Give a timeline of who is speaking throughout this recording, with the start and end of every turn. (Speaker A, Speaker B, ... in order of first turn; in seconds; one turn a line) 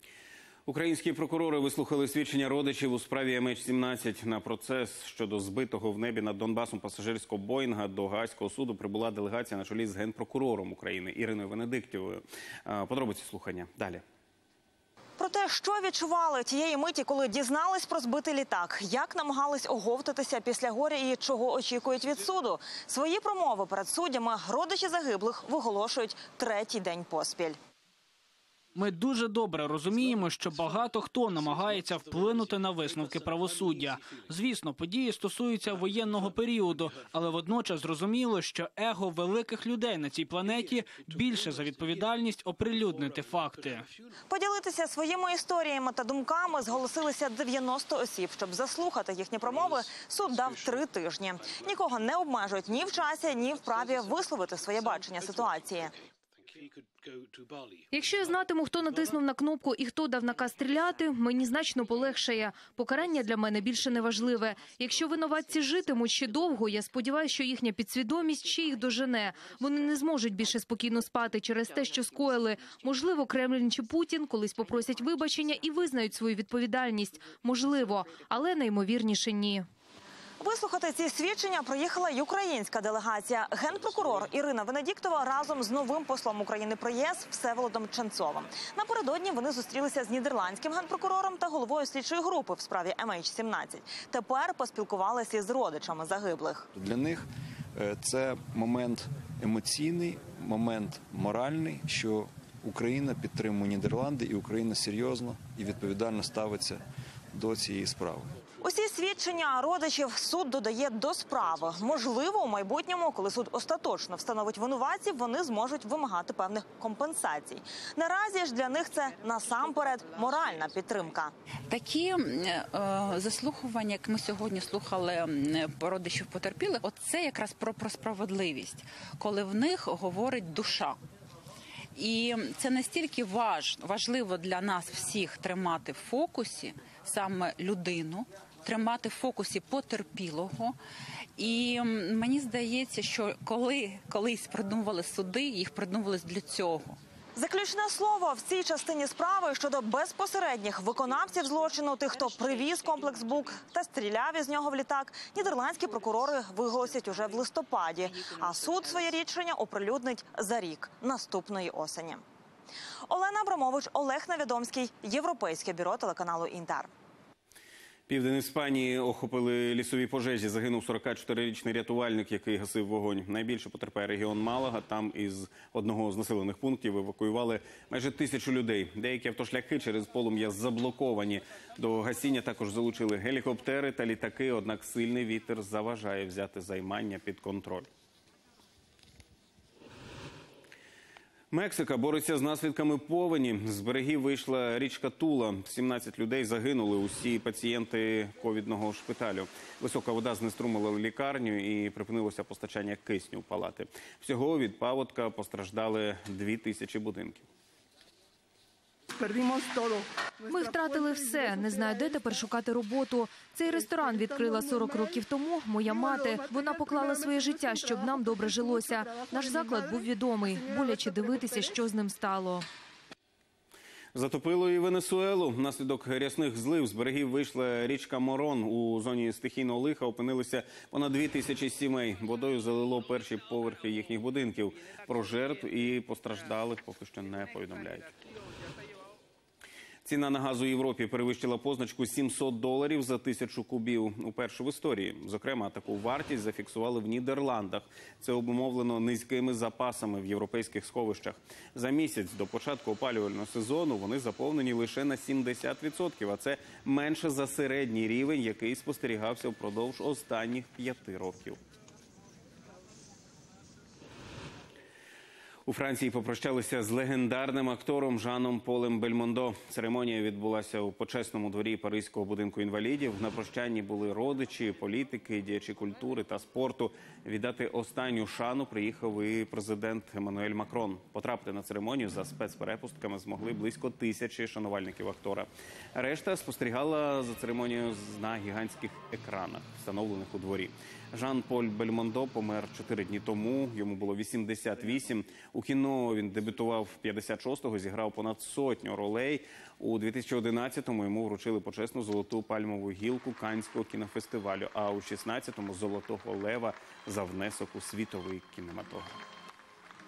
Speaker A: 0.7-14.0
Speaker B: 15.2-27.6
Speaker C: 28.8-43.9
Speaker B: 44.3-56.0
Speaker D: 57.9-79.6
Speaker B: 80.4-96.7
Speaker E: 96.8-97.2
Speaker E: 97.8-106.8
Speaker E: 107.3-108.3
Speaker B: 108.6-121.3
Speaker F: 121.7-131.0
Speaker F: 132.0-140.8
Speaker F: 141.4-147.0
Speaker B: 147.4-162.2
Speaker B: 163.1-166.9
Speaker A: 168.1-187.9
Speaker A: 191.5-207.5
Speaker D: 210.5-222.7
Speaker A: 224.2-238.1
Speaker A: 240.1-261.6
Speaker A: 265.7-309.2